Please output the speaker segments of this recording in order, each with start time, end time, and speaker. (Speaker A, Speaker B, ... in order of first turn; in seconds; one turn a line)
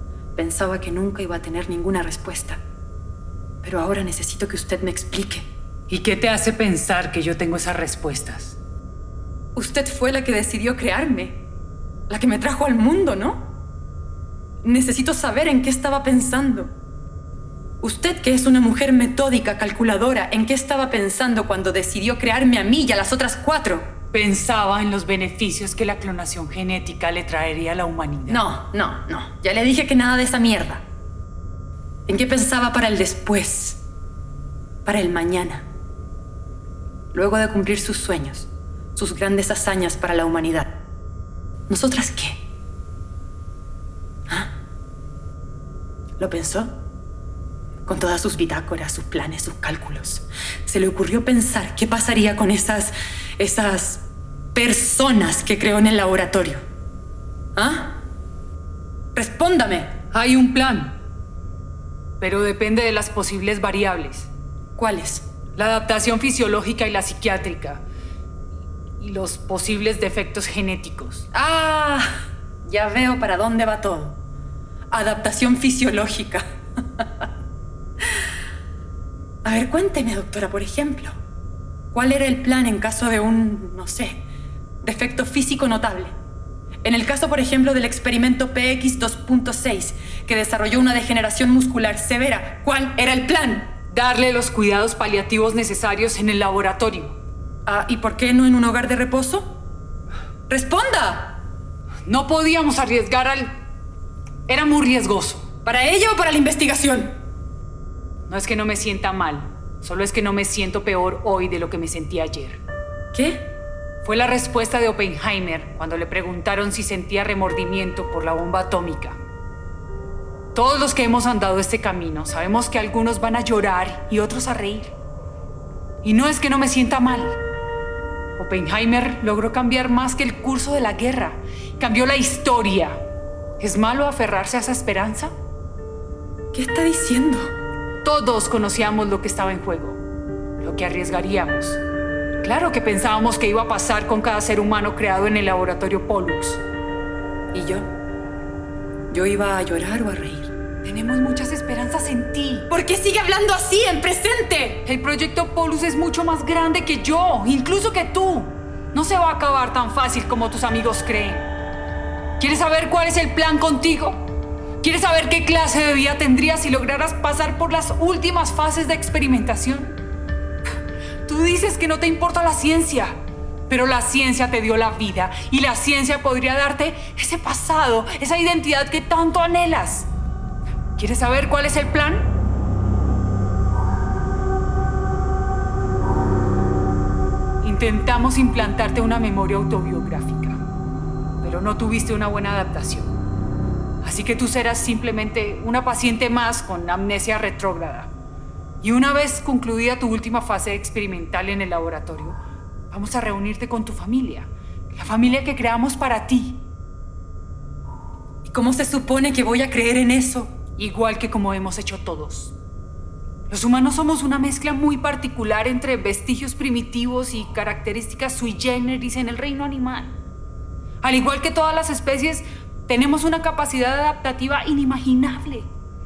Speaker A: 0.3-2.6
Speaker A: 3.6-5.5
Speaker B: 5.9-8.6
Speaker A: 9.5-11.4
Speaker A: 12.1-13.5
Speaker A: 14.6-16.7
Speaker A: 17.8-23.9
Speaker B: 24.1-28.4
Speaker A: 28.3-30.8
Speaker A: 32.1-33.8
Speaker A: 34.8-35.7
Speaker A: 37.1-40.8
Speaker A: 41.7-42.4
Speaker A: 46.2-46.7
Speaker A: 47.9-54.0
Speaker A: 54.5-56.6
Speaker A: 57.5-58.0
Speaker A: 59.1-59.9
Speaker B: 60.1-61.0
Speaker B: 62.2-64.3
Speaker A: 64.8-65.2
Speaker B: 65.5-67.8
Speaker B: 69.0-71.3
Speaker A: 71.3-72.1
Speaker A: 72.6-74.2
Speaker A: 74.9-76.4
Speaker A: 79.4-81.1
Speaker A: 81.9-84.2
Speaker A: 84.8-86.1
Speaker A: 86.8-93.7
Speaker B: 93.9-97.2
Speaker A: 97.7-99.5
Speaker A: 100.5-101.4
Speaker B: 102.0-103.6
Speaker B: 104.5-105.5
Speaker A: 105.6-107.2
Speaker B: 108.3-112.6
Speaker A: 113.1-113.5
Speaker B: 114.0-119.2
Speaker B: 120.5-124.9
Speaker B: 126.0-127.3
Speaker B: 128.4-133.0
Speaker B: 133.6-135.3
Speaker A: 136.5-137.5
Speaker B: 138.0-140.0
Speaker B: 140.6-141.8
Speaker B: 142.4-146.6
Speaker A: 147.5-147.9
Speaker A: 149.1-150.5
Speaker B: 150.8-152.7
Speaker A: 152.7-154.8
Speaker B: 154.8-161.5
Speaker B: 162.4-164.2
Speaker B: 164.8-170.0
Speaker B: 171.2-180.1
Speaker B: 180.9-182.3
Speaker B: 187.6-190.6
Speaker B: 191.4-193.1
Speaker B: 194.0-198.1
Speaker B: 198.8-202.4
Speaker B: 202.9-206.6
Speaker A: 208.4-210.5
Speaker B: 210.8-212.5
Speaker B: 213.5-220.2
Speaker B: 221.0-225.7